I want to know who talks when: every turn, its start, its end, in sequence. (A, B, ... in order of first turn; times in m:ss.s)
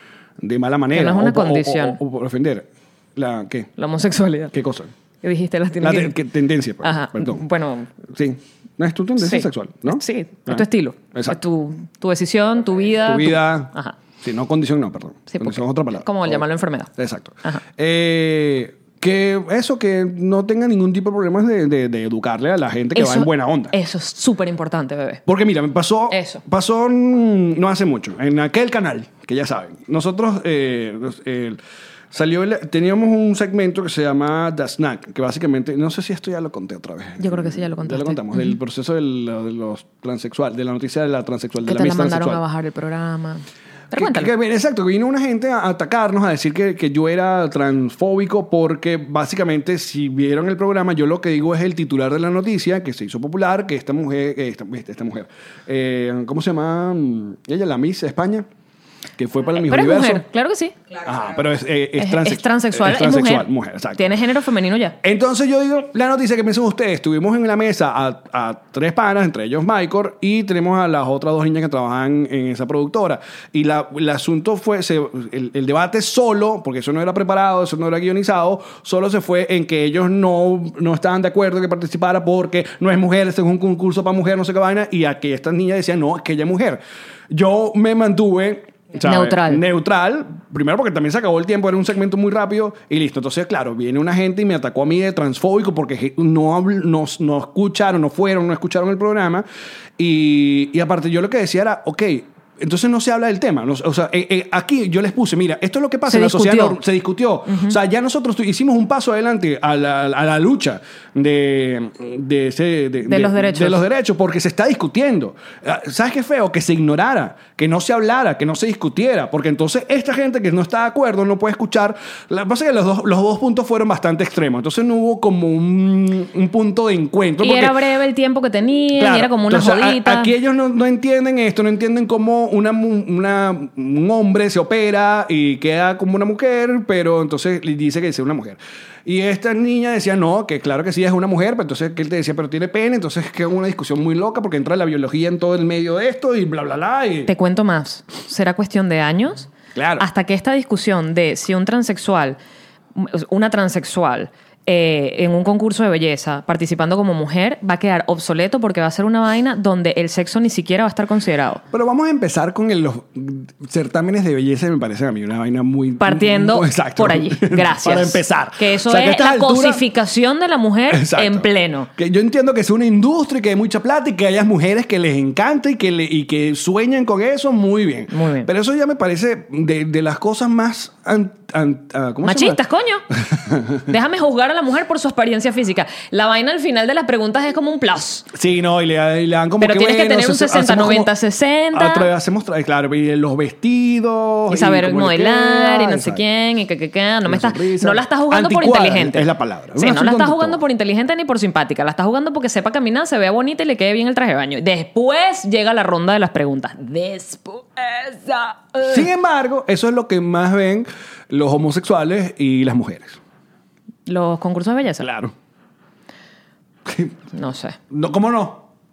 0:00.4-0:03.7 A
0:00.9-0:02.0 B
0:03.8-0:04.5 B
0:04.5-0:04.9 A
0:05.2-0:06.1 B
0:05.8-0:07.4 A
0:06.8-0:07.9 B
0:08.1-0:11.4 A
0:09.2-0:14.0 B
0:13.0-0:16.4 A
0:15.3-0:16.9 B
0:17.0-0:23.7 A
0:22.9-0:25.2 B
0:25.2-0:31.6 A
0:26.1-0:26.4 B
0:32.1-0:42.4 A
0:37.2-0:38.6 B
0:41.6-0:44.3 B
0:43.9-0:58.5 A
0:59.2-1:00.2 A
0:59.5-1:00.7 B
1:00.9-1:04.1 A
1:02.0-1:05.0 B
1:05.0-1:39.4 A
1:29.0-1:29.6 B
1:40.0-2:07.8 A
1:46.1-1:46.8 B
1:47.5-1:47.8 B
1:53.0-1:53.8 B
2:07.4-2:10.3 B
2:09.0-2:27.3 A
2:27.2-2:32.4 B
2:29.7-2:30.0 A
2:32.9-2:41.6 B
2:41.7-2:49.8 A
2:46.0-2:51.9 B
2:50.9-3:02.6 A
2:58.1-2:58.5 B
3:02.2-3:03.0 B
3:03.2-3:03.9 A
3:03.9-3:08.3 B
3:08.3-3:11.1 A
3:09.6-3:12.1 B
3:11.7-3:16.2 A
3:14.5-3:29.1 B
3:17.2-3:20.6 A
3:28.8-3:33.2 A
3:34.0-3:35.1 B
3:35.0-3:35.3 A
3:36.8-3:37.2 A
3:37.3-3:37.8 B
3:37.9-3:38.6 A